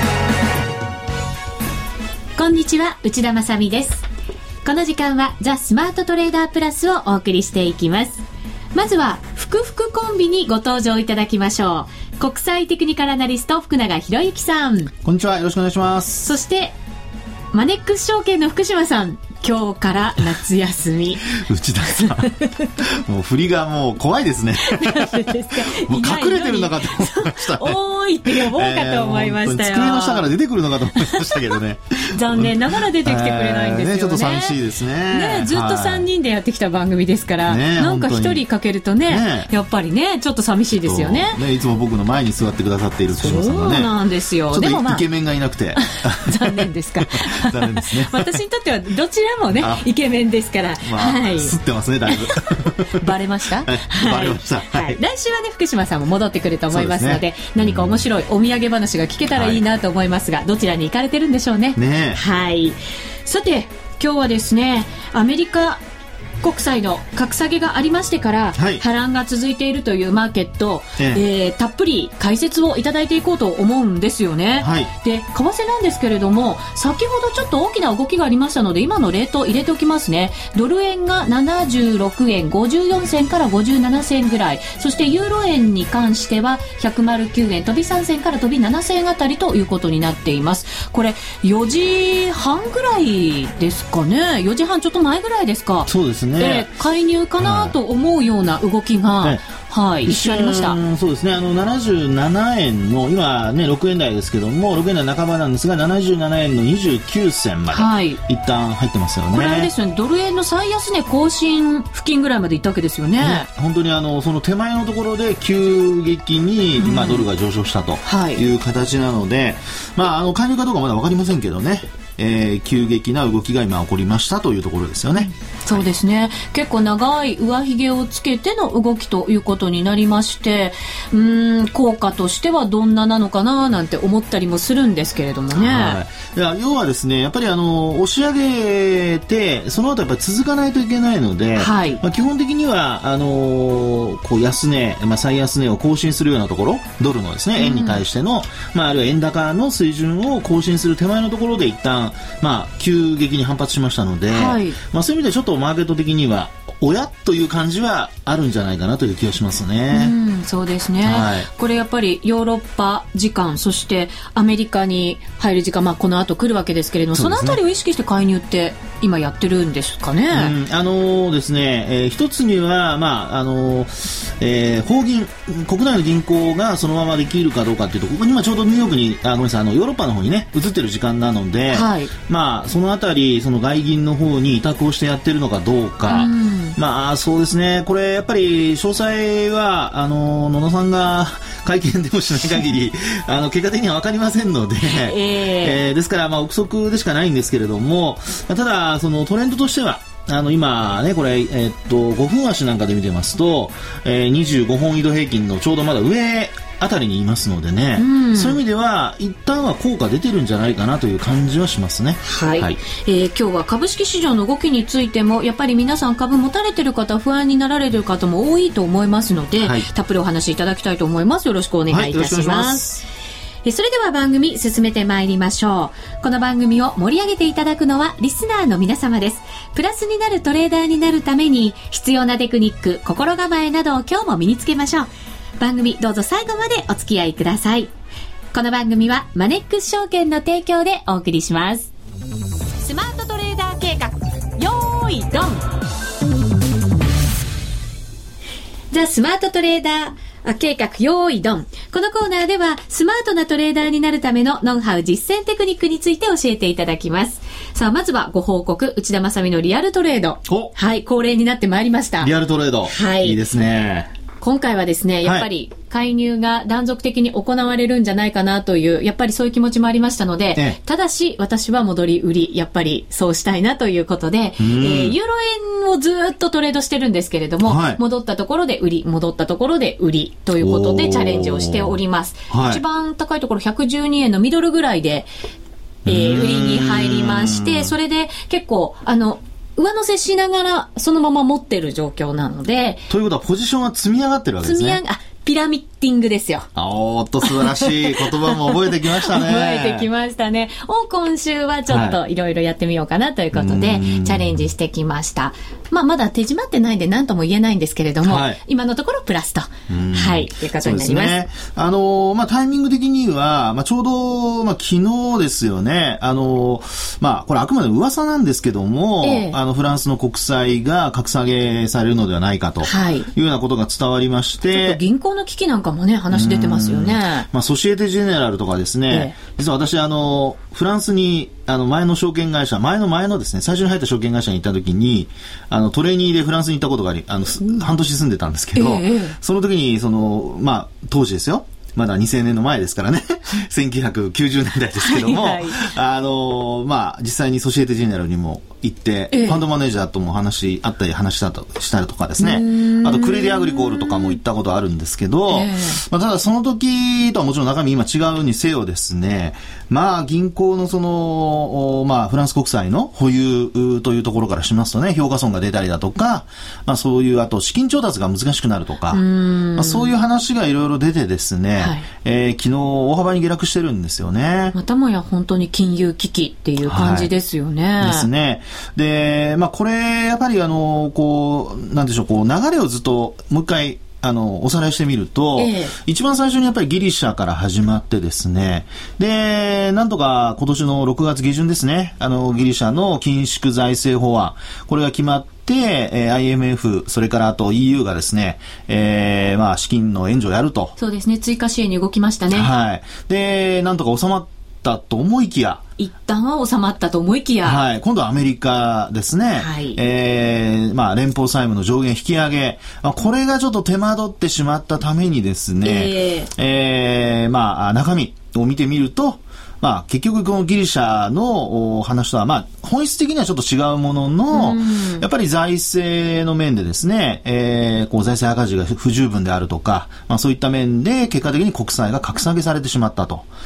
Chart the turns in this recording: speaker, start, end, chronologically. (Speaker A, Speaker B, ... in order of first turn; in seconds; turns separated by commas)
Speaker A: 2.4-4.0, Speaker A: 4.6-8.2, Speaker A: 8.7-14.9, Speaker B: 15.0-16.3, Speaker A: 16.2-16.8, Speaker A: 17.5-21.3, Speaker B: 21.3-36.1, Speaker A: 21.9-22.7, Speaker A: 24.6-30.3, Speaker A: 30.9-31.4, Speaker A: 32.0-34.6, Speaker A: 35.1-41.4, Speaker B: 37.4-38.5, Speaker B: 39.1-39.5, Speaker B: 40.7-43.9, Speaker A: 43.2-45.0, Speaker B: 44.5-48.3, Speaker A: 45.8-51.5, Speaker B: 49.6-49.9, Speaker B: 50.8-53.1, Speaker A: 52.1-65.8, Speaker B: 53.6-55.0, Speaker B: 56.7-58.0, Speaker B: 59.3-59.6, Speaker B: 61.8-62.2, Speaker A: 66.4-100.8, Speaker B: 68.5-68.8, Speaker B: 71.0-71.2, Speaker B: 74.6-74.9, Speaker B: 95.9-96.7, Speaker B: 97.4-97.8, Speaker B: 99.2-99.5, Speaker B: 100.0-109.7, Speaker A: 107.7-108.2, Speaker A: 109.3-113.5, Speaker B: 113.2-125.9, Speaker A: 116.8-117.2, Speaker A: 118.0-118.5, Speaker A: 125.2-136.0, Speaker B: 135.5-160.1, Speaker A: 141.6-142.0, Speaker A: 147.6-148.0, Speaker A: 154.3-154.8, Speaker A: 159.9-170.5, Speaker B: 161.0-161.5, Speaker B: 167.1-167.6, Speaker B: 170.3-212.8, Speaker A: 181.7-182.1, Speaker A: 186.1-186.8, Speaker A: 194.8-195.8, Speaker A: 208.0-208.6, Speaker A: 212.2-222.9, Speaker B: 219.6-219.9, Speaker B: 221.9-223.0, Speaker A: 223.7-237.9, Speaker A: 238.5-241.9, Speaker A: 242.8-245.6, Speaker A: 248.9-262.3, Speaker B: 260.5-260.7, Speaker B: 262.2-264.1, Speaker A: 262.9-263.4, Speaker A: 264.4-285.3, Speaker B: 274.6-275.2, Speaker B: 277.6-278.0, Speaker B: 280.6-282.0, Speaker B: 282.5-282.8, Speaker B: 286.1-287.9, Speaker A: 286.1-293.1, Speaker B: 293.1-295.0, Speaker A: 294.6-296.7, Speaker B: 296.8-300.1, Speaker A: 297.4-311.4, Speaker B: 301.9-302.2, Speaker B: 303.5-304.7, Speaker B: 308.2-308.6, Speaker B: 309.9-325.0, Speaker A: 319.2-319.6, Speaker A: 322.8-323.3, Speaker A: 324.7-327.5, Speaker B: 326.3-374.8, Speaker A: 329.1-329.4, Speaker A: 338.8-339.4, Speaker A: 345.0-345.9, Speaker A: 349.3-349.6, Speaker A: 352.4-354.4, Speaker A: 355.5-356.0, Speaker A: 369.1-370.1, Speaker A: 371.8-372.1, Speaker A: 374.7-378.3, Speaker B: 376.8-377.3, Speaker B: 378.0-401.0, Speaker A: 385.6-385.9, Speaker A: 401.0-402.7, Speaker B: 402.5-405.8, Speaker A: 406.0-407.8, Speaker B: 407.6-433.5, Speaker A: 409.6-410.0, Speaker A: 415.8-416.5, Speaker A: 424.5-425.3